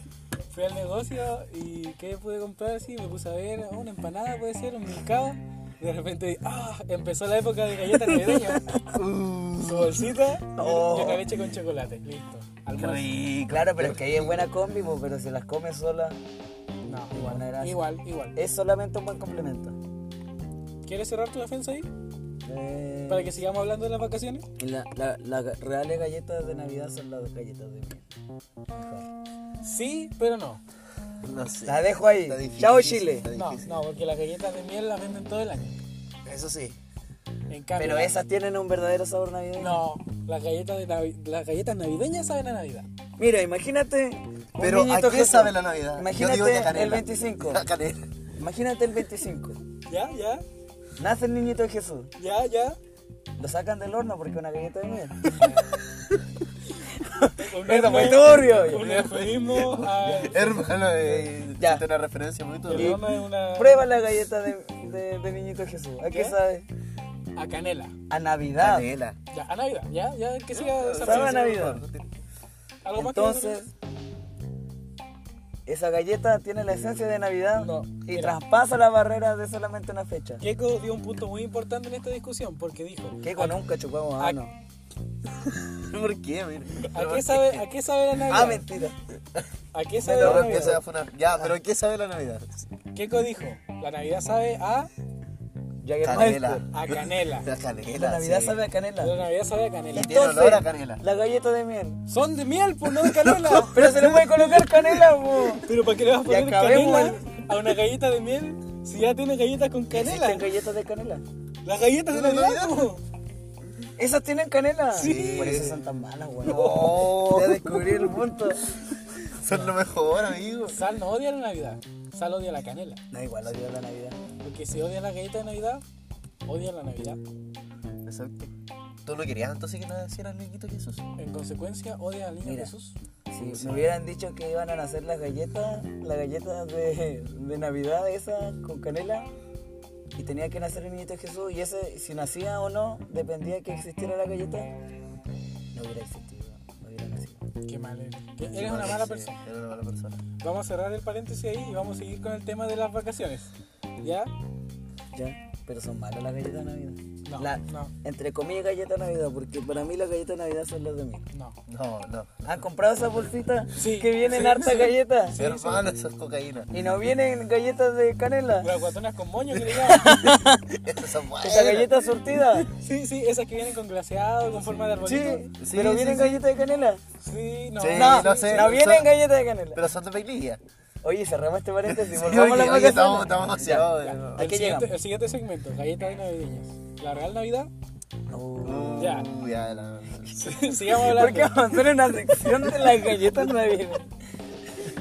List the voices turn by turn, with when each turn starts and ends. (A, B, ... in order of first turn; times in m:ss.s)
0:00.5-0:08.7 A
0:08.3-0:09.0 B
0:08.9-0:10.0 C
0:09.6-0:13.1 A
0:10.6-0:11.2 B
0:10.9-0:11.1 C
0:12.8-0:14.5 C
0:13.4-0:16.2 B
0:16.8-0:18.4 A
0:17.1-0:19.8 B
0:20.8-0:21.9 A
0:22.4-0:23.4 B
0:23.1-0:24.4 A
0:24.6-0:28.0 B
0:28.7-0:29.1 B
0:29.6-0:30.6 A
0:31.2-0:33.7 C
0:31.6-0:33.3 B
0:33.3-0:35.7 A
0:36.2-0:36.8 C
0:37.5-0:38.2 A
0:37.8-0:39.8 B
0:39.6-0:42.9 A
0:43.2-0:47.6 B
0:44.6-0:48.0 C
0:48.4-0:49.6 B
0:49.9-0:50.4 A
0:51.0-0:52.1 B
0:52.2-0:52.8 A
0:53.4-0:55.4 B
0:56.9-0:58.9 B
0:57.4-1:00.6 A
0:58.6-1:03.0 C
1:00.0-1:01.8 B
1:02.7-1:03.9 A
1:02.7-1:06.7 B
1:06.1-1:06.4 A
1:07.3-1:07.9 A
1:08.1-1:08.9 B
1:08.6-1:09.2 C
1:09.3-1:11.8 A
1:10.5-1:12.1 C
1:11.0-1:11.8 B
1:12.8-1:13.6 A
1:13.0-1:13.7 B
1:15.6-1:20.4 B
1:17.5-1:18.4 A
1:20.4-1:23.6 A
1:23.2-1:24.5 B
1:25.4-1:27.6 C
1:26.8-1:28.6 A
1:28.2-1:29.0 B
1:29.7-1:30.8 A
1:30.0-1:30.8 B
1:30.1-1:32.7 C
1:32.9-1:34.9 A
1:35.8-1:36.6 B
1:36.0-1:38.6 C
1:36.7-1:37.5 A
1:37.9-1:39.2 B
1:39.0-1:40.3 A
1:39.9-1:41.0 C
1:40.0-1:42.0 B
1:42.1-1:43.9 A
1:43.0-1:44.0 C
1:43.7-1:45.7 B
1:45.6-1:50.4 A
1:46.2-1:47.2 B
1:49.9-1:51.2 B
1:51.6-1:53.0 A
1:52.1-1:52.9 C
1:54.0-1:58.6 B
1:54.9-1:55.7 A
1:55.0-1:55.8 C
1:56.4-1:58.3 C
1:56.5-1:56.8 A
1:59.2-2:00.8 C
1:59.5-1:59.7 A
2:00.6-2:03.0 A
2:03.1-2:04.2 B
2:04.4-2:05.8 A
2:06.4-2:07.2 A
2:08.0-2:08.5 C
2:09.0-2:11.0 C
2:11.2-2:13.0 A
2:12.4-2:12.7 B
2:13.3-2:19.3 B
2:13.4-2:13.9 C
2:20.2-2:24.7 B
2:25.7-2:27.4 B
2:27.6-2:29.4 A
2:28.5-2:30.2 C
2:30.4-2:34.3 A
2:35.1-2:41.2 B
2:37.2-2:37.9 A
2:41.7-2:42.6 C
2:42.4-2:45.4 B
2:43.8-2:45.8 A
2:45.4-2:46.7 C
2:46.7-2:48.7 B
2:48.6-2:50.1 A
2:49.8-2:50.8 B
2:50.8-2:51.9 C
2:51.4-2:52.7 B
2:52.8-2:55.5 A
2:55.0-2:57.0 B
2:55.6-2:56.3 C
2:57.2-2:58.8 A
2:57.8-2:59.1 C
2:57.9-2:59.8 B
2:59.7-3:00.6 C
3:01.0-3:04.9 B
3:01.9-3:04.5 C
3:04.0-3:07.7 A
3:08.3-3:09.2 B
3:08.6-3:10.7 C
3:09.0-3:09.3 A
3:10.4-3:11.6 A
3:10.9-3:14.1 B